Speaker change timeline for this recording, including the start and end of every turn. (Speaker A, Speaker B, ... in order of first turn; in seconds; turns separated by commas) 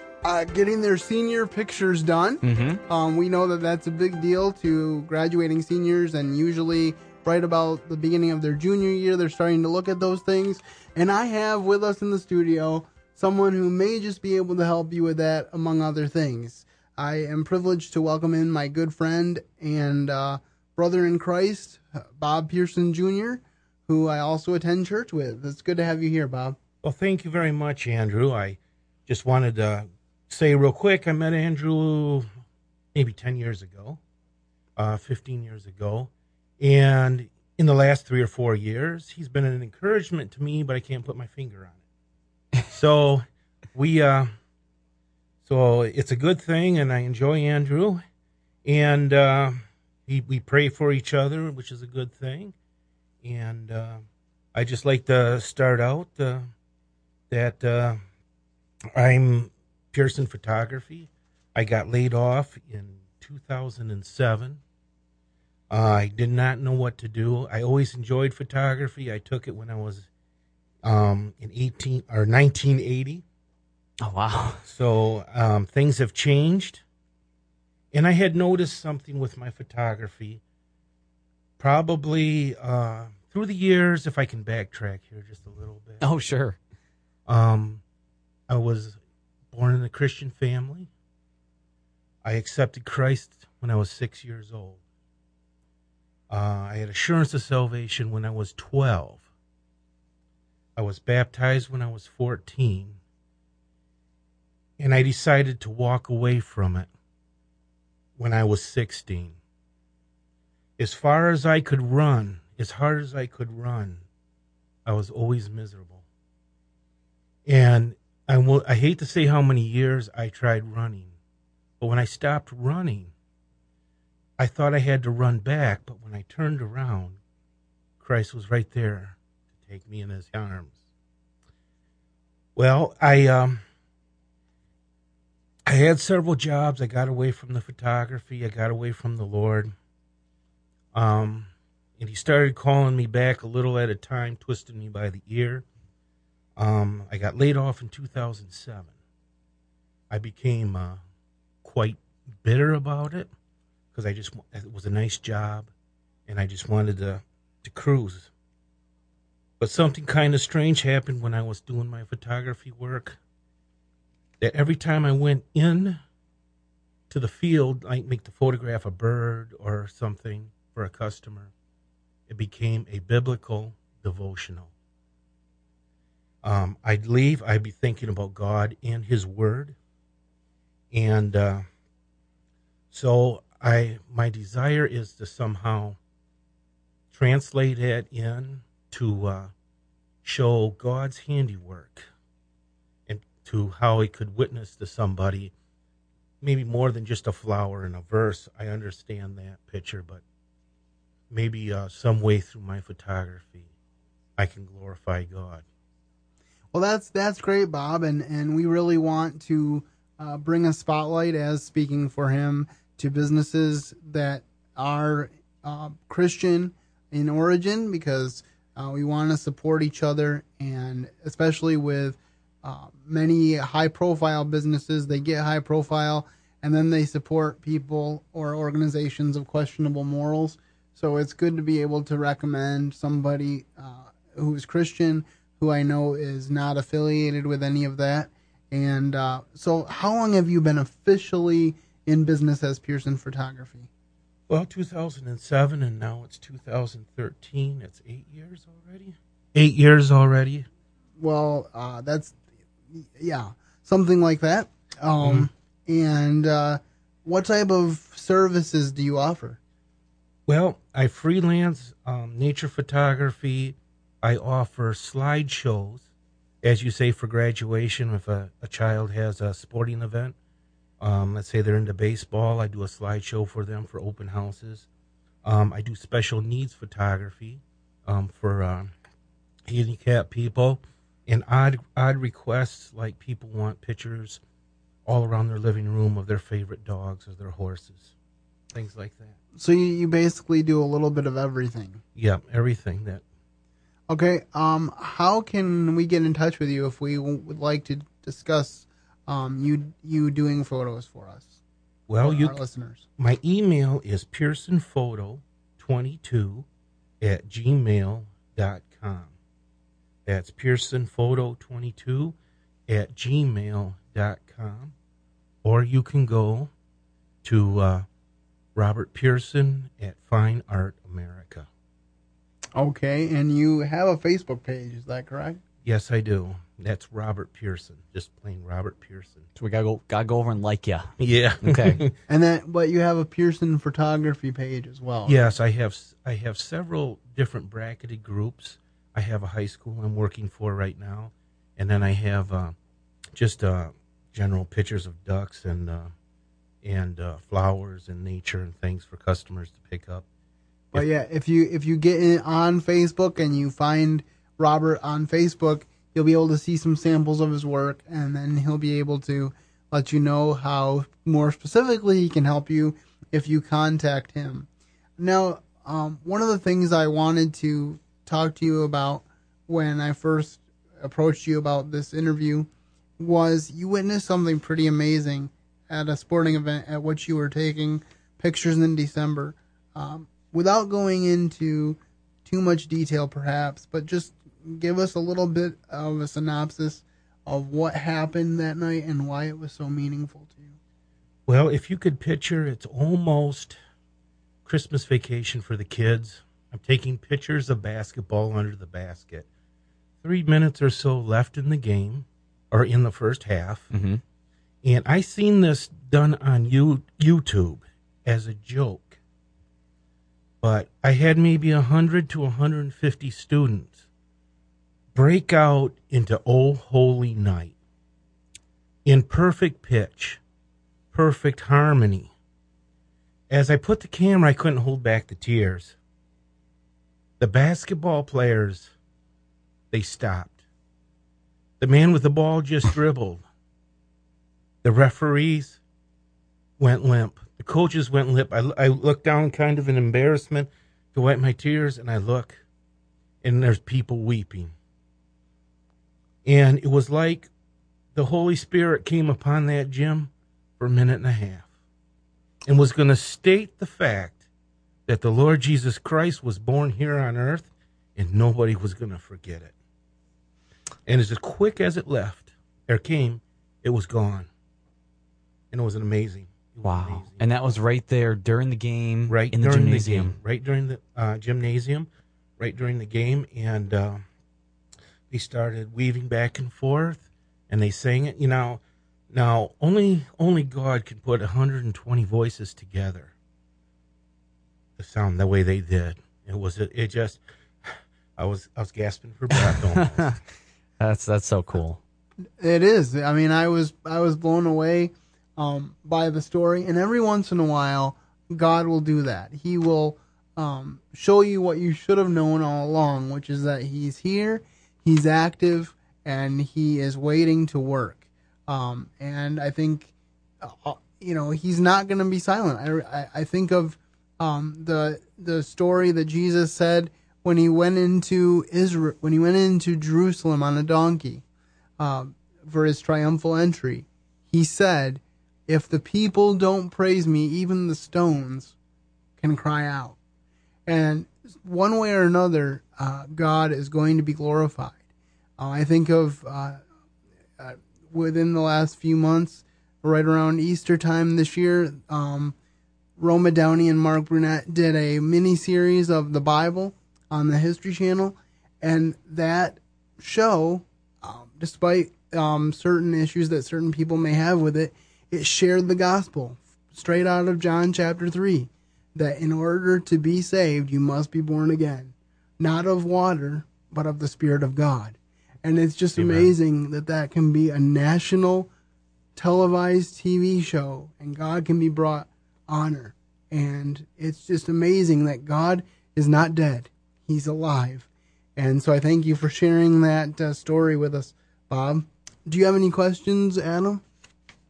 Speaker A: 0.2-26.6, Speaker B: 2.4-2.8, Speaker C: 26.8-32.2, Speaker C: 32.9-34.0, Speaker C: 34.8-41.8, Speaker C: 42.7-44.3, Speaker C: 45.4-48.0, Speaker C: 48.6-52.5, Speaker C: 53.2-54.0, Speaker C: 54.5-56.5, Speaker C: 57.3-58.0, Speaker C: 58.9-64.6, Speaker C: 65.7-70.1, Speaker C: 70.8-73.2, Speaker B: 74.0-74.6, Speaker C: 74.6-76.8, Speaker C: 77.9-80.4, Speaker C: 81.6-86.1, Speaker B: 86.0-86.6, Speaker C: 87.2-87.8, Speaker C: 88.5-89.0, Speaker C: 89.5-90.9, Speaker C: 92.2-94.8, Speaker C: 96.3-99.2, Speaker C: 100.8-103.0, Speaker C: 104.8-106.9, Speaker C: 108.2-109.4, Speaker C: 110.8-114.0, Speaker C: 114.8-116.0, Speaker C: 117.5-121.2, Speaker C: 121.8-123.1, Speaker C: 124.4-127.2, Speaker C: 128.0-130.8, Speaker C: 132.6-133.6, Speaker C: 135.7-139.7, Speaker C: 140.9-145.6, Speaker C: 146.6-148.9, Speaker C: 150.1-151.0, Speaker C: 151.6-153.3, Speaker C: 153.9-155.7, Speaker C: 156.3-158.3, Speaker C: 159.6-163.2, Speaker C: 164.4-166.0, Speaker C: 167.1-171.5, Speaker C: 172.3-174.7, Speaker C: 176.4-179.8, Speaker C: 180.9-181.6, Speaker C: 182.9-186.0, Speaker C: 187.1-189.5, Speaker C: 190.2-192.1, Speaker C: 193.1-195.5, Speaker C: 196.4-200.2, Speaker C: 201.3-203.7, Speaker C: 204.4-205.6, Speaker A: 206.7-243.9, Speaker C: 244.5-250.7, Speaker A: 251.2-252.3, Speaker A: 252.9-259.6, Speaker C: 255.2-255.5, Speaker C: 260.5-266.1, Speaker C: 266.6-270.4, Speaker C: 271.0-274.9, Speaker C: 275.4-278.9, Speaker C: 279.7-284.4, Speaker C: 285.1-288.1, Speaker C: 288.7-289.4, Speaker A: 289.6-292.0, Speaker C: 292.1-293.2, Speaker A: 294.1-301.6, Speaker C: 302.1-302.6, Speaker A: 302.2-303.1, Speaker C: 303.2-306.6, Speaker C: 307.2-309.3, Speaker C: 310.2-312.4, Speaker C: 312.9-314.9, Speaker C: 315.6-316.7, Speaker C: 317.4-318.1, Speaker C: 318.7-321.7, Speaker A: 322.8-325.6, Speaker C: 325.8-329.4, Speaker B: 329.6-331.1, Speaker C: 331.2-332.1, Speaker B: 331.6-332.0, Speaker A: 332.3-335.4, Speaker C: 335.2-342.7, Speaker C: 343.3-346.1, Speaker C: 346.8-350.2, Speaker A: 350.9-390.8, Speaker C: 391.5-393.8, Speaker C: 394.6-399.5, Speaker C: 400.2-403.9, Speaker B: 403.9-404.2, Speaker C: 404.8-409.2, Speaker C: 410.6-414.0, Speaker C: 415.1-417.7, Speaker C: 419.1-420.4, Speaker C: 421.1-422.3, Speaker C: 423.5-425.9, Speaker C: 427.4-428.9, Speaker C: 429.9-430.6, Speaker C: 431.8-433.4, Speaker C: 434.8-435.8, Speaker C: 436.8-442.6, Speaker C: 443.4-444.7, Speaker C: 446.4-447.5, Speaker C: 448.1-451.7, Speaker C: 452.6-454.4, Speaker C: 455.1-459.7, Speaker C: 461.1-464.5, Speaker C: 465.7-467.5, Speaker B: 466.8-470.4, Speaker C: 469.3-474.2, Speaker C: 475.3-478.8, Speaker C: 479.3-483.3, Speaker C: 485.0-490.4, Speaker B: 489.6-490.3, Speaker B: 491.0-492.0, Speaker A: 492.6-521.4, Speaker A: 522.0-528.7, Speaker A: 529.4-530.2, Speaker A: 530.9-535.0, Speaker A: 535.6-536.8, Speaker A: 537.6-542.5, Speaker A: 543.2-568.7, Speaker C: 566.1-566.5, Speaker A: 569.3-584.0